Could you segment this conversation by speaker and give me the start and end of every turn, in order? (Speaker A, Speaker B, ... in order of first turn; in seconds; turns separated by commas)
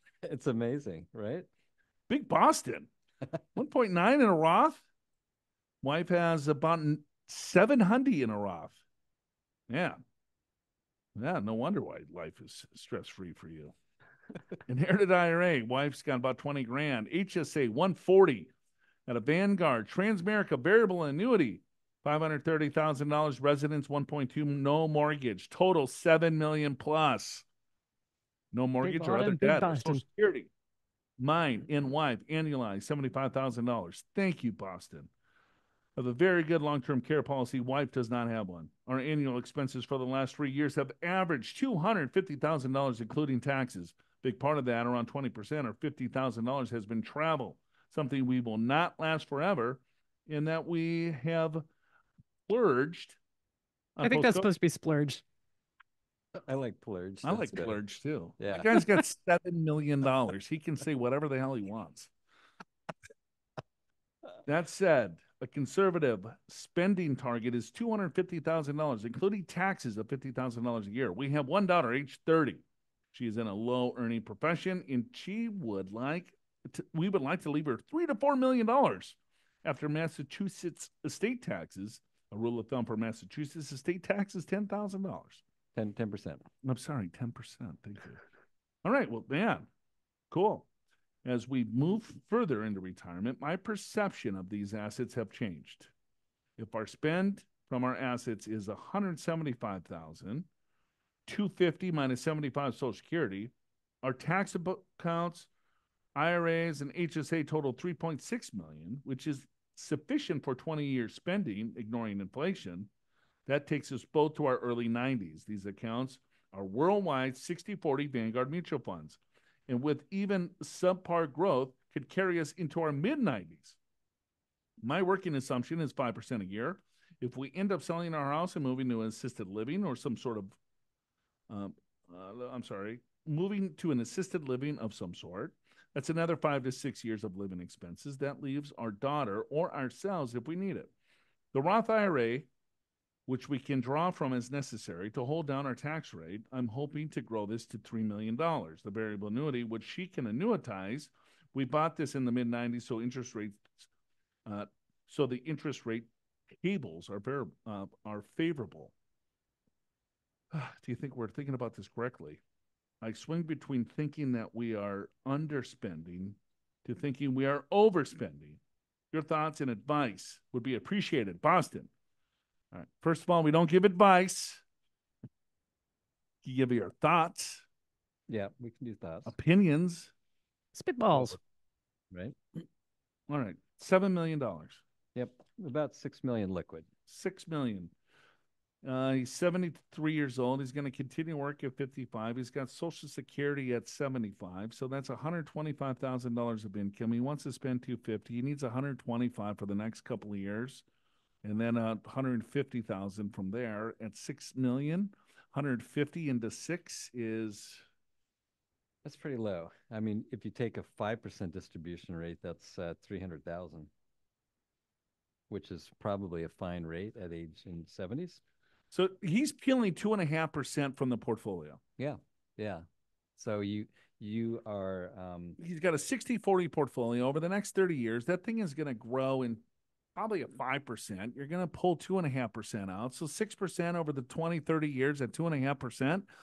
Speaker A: 0.3-1.5, Speaker B: 2.1-2.9, Speaker B: 3.5-4.8, Speaker B: 5.8-8.8, Speaker B: 9.7-10.0, Speaker B: 11.2-13.8, Speaker B: 14.7-18.5, Speaker B: 19.1-27.5, Speaker B: 28.5-30.5, Speaker C: 28.8-30.0, Speaker B: 31.2-35.1, Speaker B: 36.0-51.6, Speaker B: 52.5-53.2, Speaker B: 54.0-54.5, Speaker C: 54.0-55.2, Speaker A: 56.5-57.8, Speaker B: 57.2-62.1, Speaker A: 58.4-58.9, Speaker B: 64.5-85.4, Speaker A: 85.8-86.5, Speaker B: 86.6-88.2, Speaker B: 88.8-89.7, Speaker B: 90.3-90.7, Speaker B: 91.2-95.9, Speaker B: 96.6-100.5, Speaker B: 101.3-105.5, Speaker B: 106.2-112.9, Speaker B: 113.5-123.8, Speaker B: 124.8-130.6, Speaker B: 131.5-140.9, Speaker B: 141.5-142.5, Speaker B: 143.3-153.9, Speaker B: 154.5-158.9, Speaker B: 160.5-162.4, Speaker B: 163.0-168.6, Speaker B: 169.1-171.9, Speaker B: 172.7-174.6, Speaker B: 176.4-177.7, Speaker A: 178.3-179.3, Speaker B: 179.3-180.1, Speaker C: 180.8-181.4, Speaker A: 182.1-182.4, Speaker B: 183.3-184.8, Speaker A: 185.2-186.9, Speaker B: 187.1-187.9, Speaker B: 188.8-200.8, Speaker B: 201.4-207.8, Speaker A: 209.0-213.9, Speaker A: 215.5-218.4, Speaker B: 218.9-221.8, Speaker A: 222.0-222.8, Speaker A: 223.4-225.6, Speaker B: 225.6-229.6, Speaker B: 230.2-236.3